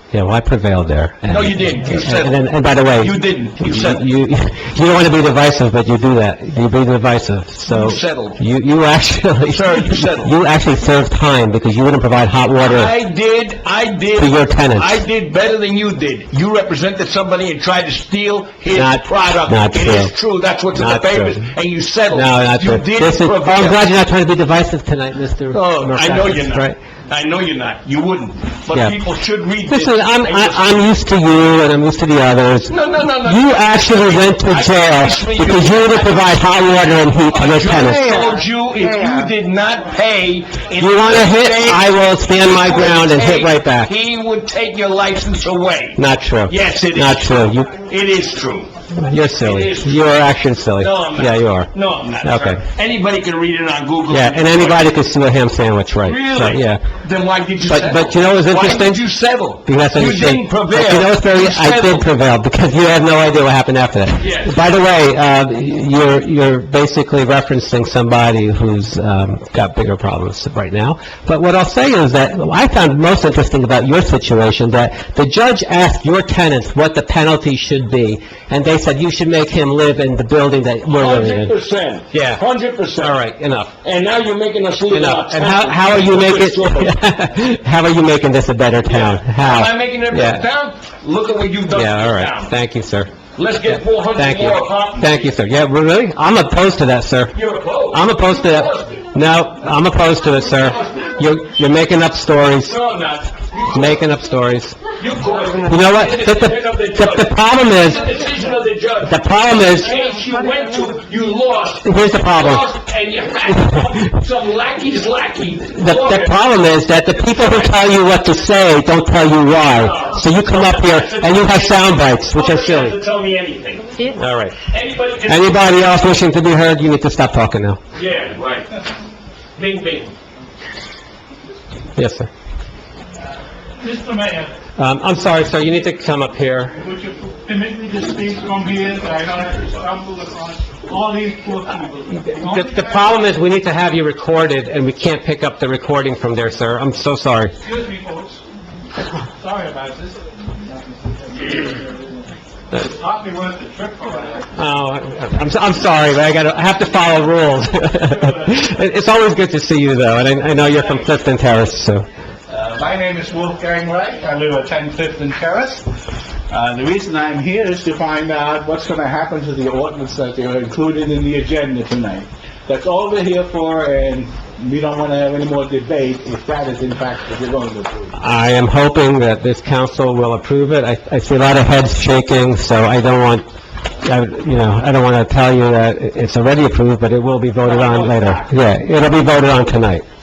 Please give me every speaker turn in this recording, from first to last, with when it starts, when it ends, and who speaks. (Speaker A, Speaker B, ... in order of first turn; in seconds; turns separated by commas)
Speaker A: 0.1-12.9, Speaker B: 1.3-2.4, Speaker B: 3.0-4.1, Speaker B: 7.7-8.4, Speaker B: 9.5-10.3, Speaker B: 12.6-23.9, Speaker A: 14.2-15.0, Speaker A: 18.7-20.1, Speaker A: 20.7-21.5, Speaker A: 22.1-26.8, Speaker B: 25.5-30.8, Speaker A: 29.7-38.2, Speaker B: 32.7-36.4, Speaker B: 37.3-48.7, Speaker A: 40.8-43.9, Speaker A: 46.0-47.7, Speaker A: 48.9-51.7, Speaker B: 49.4-50.2, Speaker B: 50.8-54.9, Speaker A: 52.2-52.6, Speaker A: 54.1-56.8, Speaker B: 56.0-62.1, Speaker A: 57.6-59.0, Speaker A: 59.6-81.5, Speaker B: 64.2-64.6, Speaker B: 80.9-83.2, Speaker A: 82.1-83.8, Speaker B: 83.8-87.0, Speaker A: 84.9-90.5, Speaker B: 88.8-92.5, Speaker A: 91.7-93.1, Speaker B: 93.3-95.3, Speaker A: 93.6-102.8, Speaker B: 97.3-99.2, Speaker B: 100.2-101.4, Speaker B: 102.5-104.0, Speaker A: 103.7-104.8, Speaker B: 105.0-116.4, Speaker A: 105.7-108.1, Speaker A: 109.0-109.9, Speaker A: 111.8-112.7, Speaker A: 115.7-123.0, Speaker B: 117.2-117.9, Speaker B: 119.7-125.8, Speaker A: 124.1-124.5, Speaker A: 125.3-127.8, Speaker B: 127.9-128.8, Speaker B: 129.6-130.1, Speaker A: 131.9-132.3, Speaker C: 133.8-134.5, Speaker A: 134.8-136.8, Speaker C: 136.7-143.3, Speaker A: 142.2-147.6, Speaker C: 147.6-148.4, Speaker C: 149.4-152.0, Speaker C: 152.7-154.5, Speaker A: 154.5-162.1, Speaker C: 158.1-158.4, Speaker C: 162.7-165.9, Speaker C: 166.5-178.2, Speaker A: 178.2-183.4, Speaker A: 184.0-190.0, Speaker C: 187.6-188.4